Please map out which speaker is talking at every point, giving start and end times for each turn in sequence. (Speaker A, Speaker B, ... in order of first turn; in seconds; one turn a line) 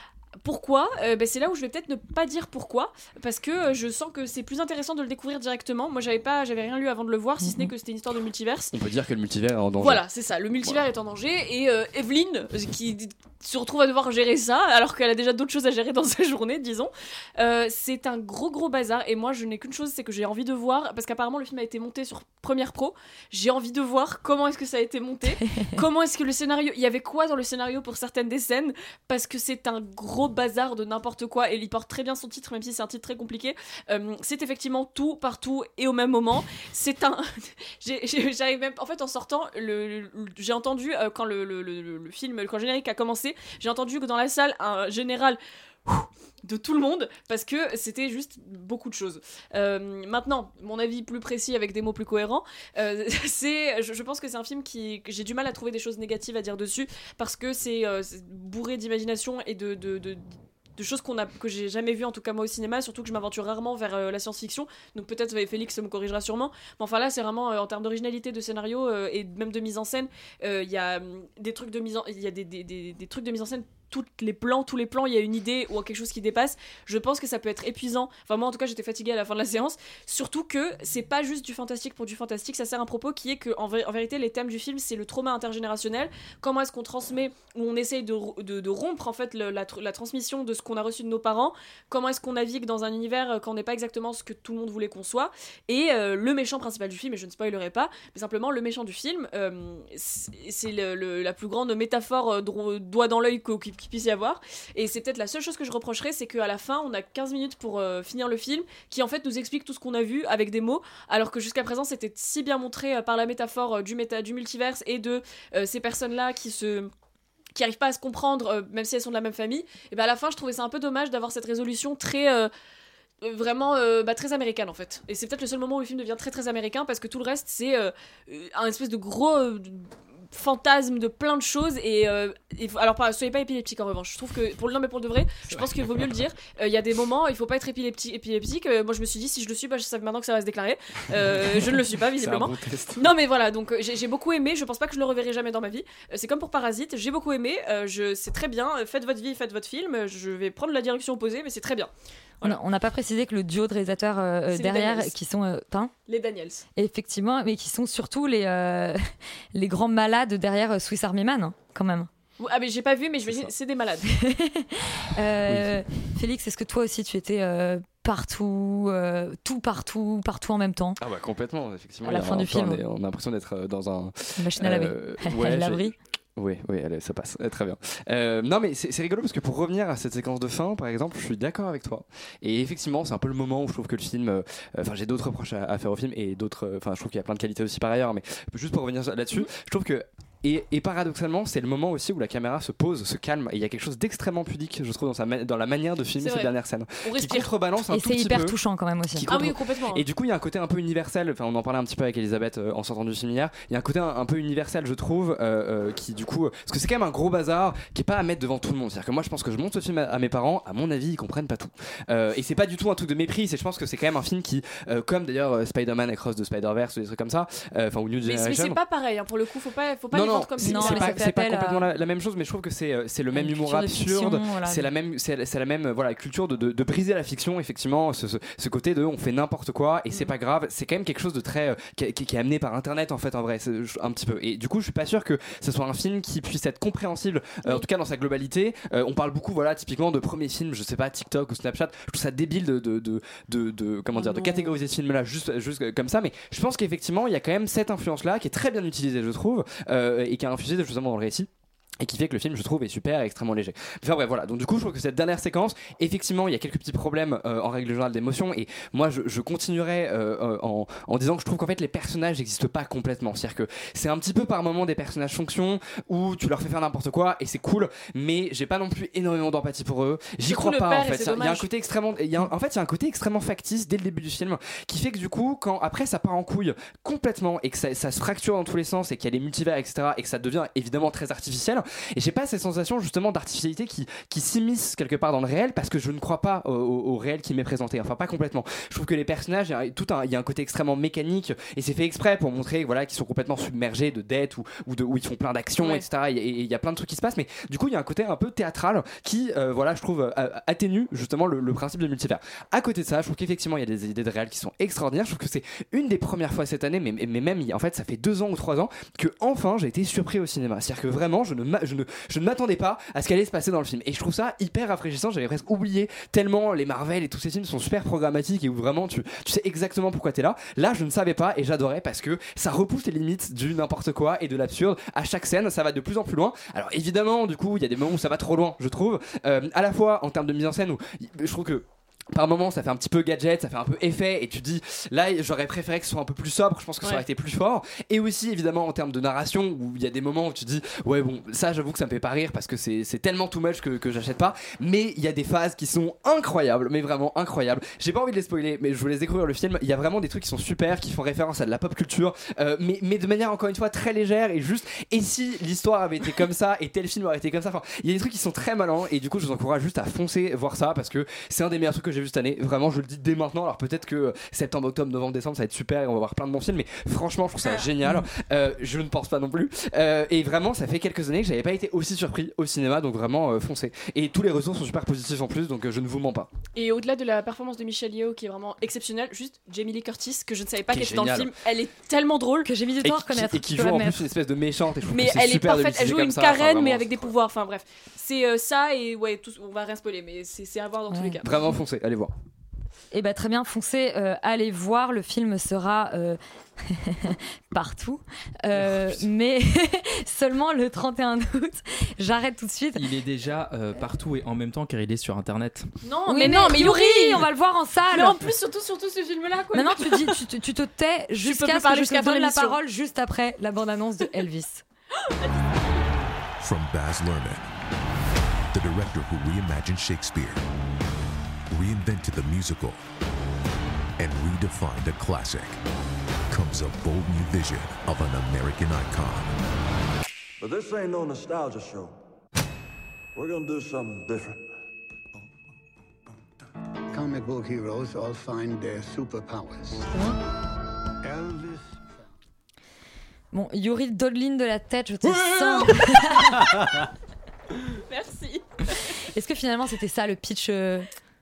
Speaker A: 0.4-8.7
Speaker B: 7.4-7.7
Speaker C: 8.7-10.0
Speaker A: 9.8-116.9
Speaker B: 25.4-25.7
Speaker A: 117.5-122.5
Speaker A: 123.2-151.9
Speaker C: 135.5-136.1
Speaker C: 141.3-143.1
Speaker B: 152.4-155.9
Speaker A: 154.5-155.1
Speaker A: 156.1-156.6
Speaker B: 156.7-159.0
Speaker B: 159.5-162.1
Speaker A: 162.4-164.1
Speaker B: 164.1-171.0
Speaker C: 171.0-198.6
Speaker B: 172.0-172.8
Speaker B: 174.4-175.9
Speaker A: 196.2-196.5
Speaker A: 197.0-197.5
Speaker B: 197.9-199.3
Speaker C: 199.1-218.8
Speaker A: 199.3-200.0
Speaker A: 218.2-221.3
Speaker C: 220.1-251.5
Speaker B: 220.6-221.8
Speaker B: 223.3-224.9
Speaker A: 244.2-244.7
Speaker C: 252.0-376.5
Speaker A: 270.4-271.7
Speaker A: 295.8-296.1
Speaker A: 376.7-382.7
Speaker C: 380.9-381.5
Speaker B: 382.6-384.2
Speaker C: 383.0-387.3
Speaker A: 385.1-391.5
Speaker B: 391.1-391.4
Speaker C: 391.4-392.3
Speaker B: 393.1-403.0
Speaker D: 402.9-405.9
Speaker A: 406.0-407.5
Speaker B: 406.3-408.4
Speaker A: 408.1-410.4
Speaker B: 409.7-414.8
Speaker A: 411.4-412.8
Speaker A: 415.3-415.9
Speaker E: 416.6-417.7
Speaker E: 418.7-420.6
Speaker E: 421.7-423.0
Speaker E: 424.2-425.8
Speaker E: 426.5-429.6
Speaker F: 430.6-432.1
Speaker F: 433.3-434.6
Speaker G: 437.1-440.1
Speaker B: 440.1-440.4
Speaker G: 441.2-441.8
Speaker B: 443.5-446.7
Speaker A: 445.6-445.9
Speaker A: 448.1-449.0
Speaker B: 449.2-451.1